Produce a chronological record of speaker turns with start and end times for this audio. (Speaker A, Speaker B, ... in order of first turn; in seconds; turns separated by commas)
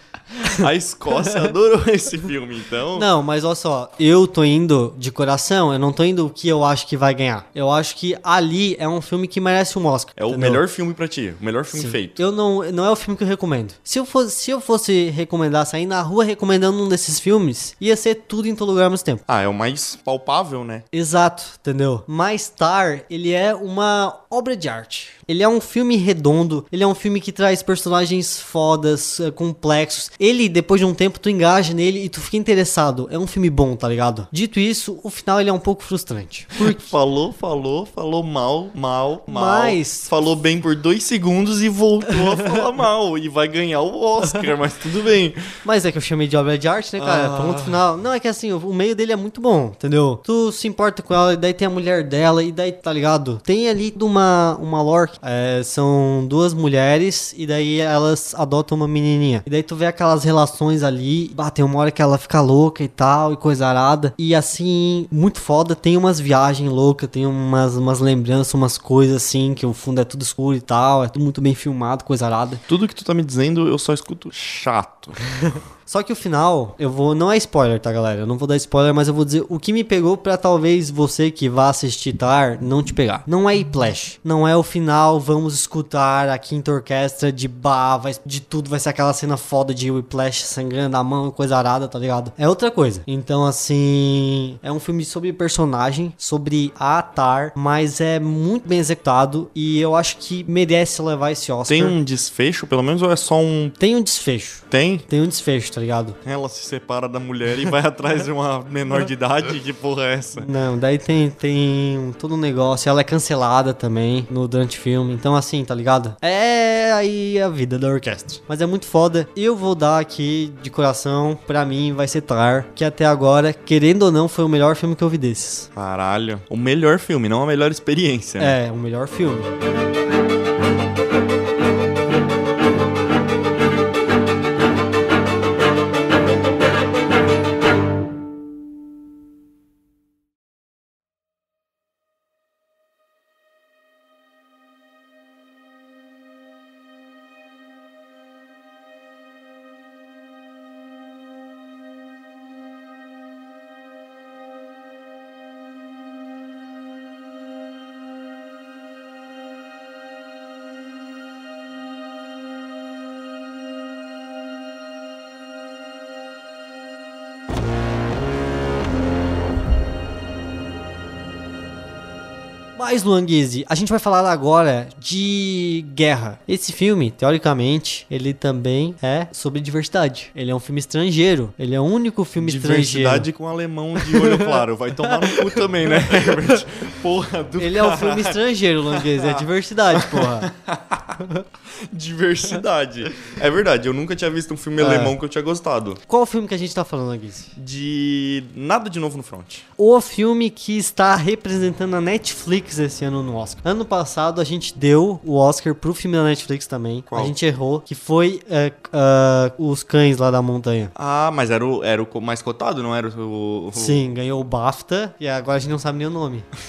Speaker A: 0.4-3.1, Speaker B: 2.9-10.6, Speaker A: 10.2-12.2, Speaker B: 11.7-19.2, Speaker A: 19.3-20.8, Speaker B: 20.9-36.9, Speaker A: 36.6-45.4, Speaker B: 39.3-40.1, Speaker B: 45.6-72.6, Speaker A: 47.0-47.8, Speaker A: 72.7-75.1, Speaker B: 75.8-101.9, Speaker A: 101.7-103.8, Speaker B: 103.8-106.2, Speaker A: 104.7-105.0, Speaker A: 106.2-110.5, Speaker B: 110.4-125.7, Speaker A: 125.7-128.6, Speaker B: 128.4-129.5, Speaker B: 172.8-183.3, Speaker A: 182.4-191.2, Speaker B: 184.0-186.5, Speaker B: 187.6-190.5, Speaker A: 191.9-196.0, Speaker B: 194.8-195.2, Speaker B: 196.1-197.5, Speaker A: 197.6-199.6, Speaker B: 199.8-210.9, Speaker A: 207.1-207.3, Speaker A: 210.9-214.1, Speaker B: 213.7-216.5